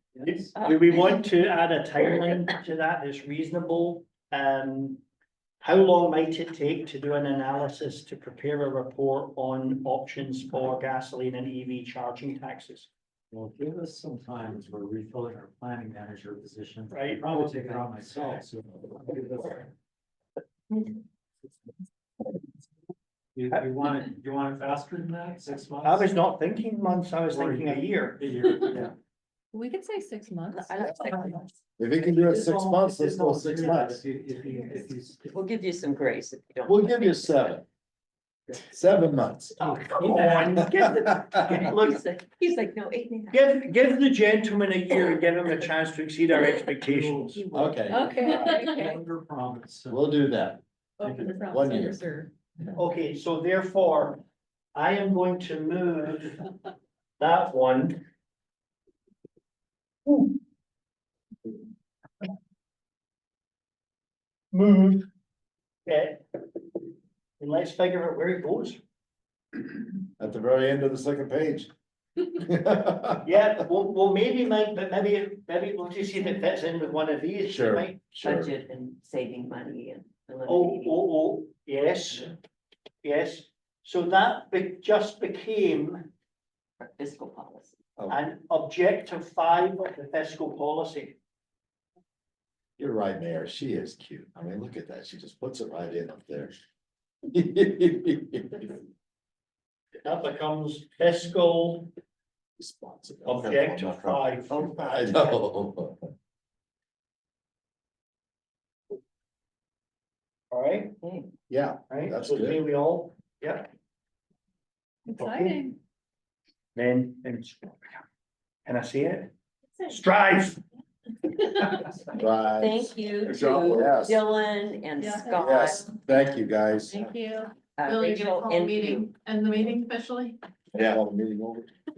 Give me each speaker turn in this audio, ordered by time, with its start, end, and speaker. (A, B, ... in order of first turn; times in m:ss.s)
0:00.2-0:00.4 A
0:00.2-0:05.0 B
0:00.5-0:01.2 C
0:05.6-0:12.9 B
0:13.3-0:19.7 A
0:16.9-0:17.3 B
0:23.3-0:26.1 A
0:25.8-0:28.8 B
0:27.3-0:28.9 A
0:29.5-0:30.8 D
0:30.5-0:31.5 C
0:31.8-0:34.0 E
0:32.0-0:35.3 A
0:35.3-0:37.5 C
0:36.6-0:37.6 E
0:38.5-0:39.6 E
0:39.6-0:40.6 A
0:39.6-0:42.0 B
0:40.1-0:43.5 C
0:40.6-0:41.6 E
0:43.3-0:47.4 B
0:46.8-0:50.0 A
0:47.4-0:49.0 C
0:47.5-0:48.1 E
0:47.9-0:48.9 D
0:49.9-0:50.6 E
0:51.0-0:52.3 D
0:51.0-0:51.5 A
0:51.3-0:52.0 E
0:52.7-0:54.2 B
0:54.7-0:56.4 B
0:57.2-0:58.0 B
1:00.0-1:00.3 B
1:04.5-1:05.1 B
1:05.9-1:06.3 B
1:07.4-1:08.8 B
1:10.2-1:11.7 E
1:12.3-1:13.3 E
1:13.2-1:18.0 B
1:17.4-1:18.5 E
1:18.2-1:21.0 C
1:20.4-1:22.3 B
1:23.0-1:26.1 B
1:26.8-1:27.8 C
1:28.1-1:31.2 B
1:32.8-1:36.5 E
1:37.3-1:38.7 E
1:40.0-1:41.9 B
1:42.6-1:46.1 E
1:43.2-1:45.1 B
1:44.5-1:45.4 C
1:50.5-1:51.0 B
1:51.0-1:51.3 C
1:51.5-1:52.6 E
1:51.9-1:53.7 B
1:55.1-1:55.8 D
1:55.1-1:55.7 B
1:56.7-1:58.0 B
1:58.6-1:59.3 B
1:59.9-2:00.6 B
2:01.6-2:02.0 B
2:02.1-2:04.2 E
2:02.6-2:05.9 C
2:05.0-2:05.4 D
2:05.4-2:07.1 E
2:06.9-2:10.4 D
2:07.8-2:09.1 C
2:10.7-2:11.7 E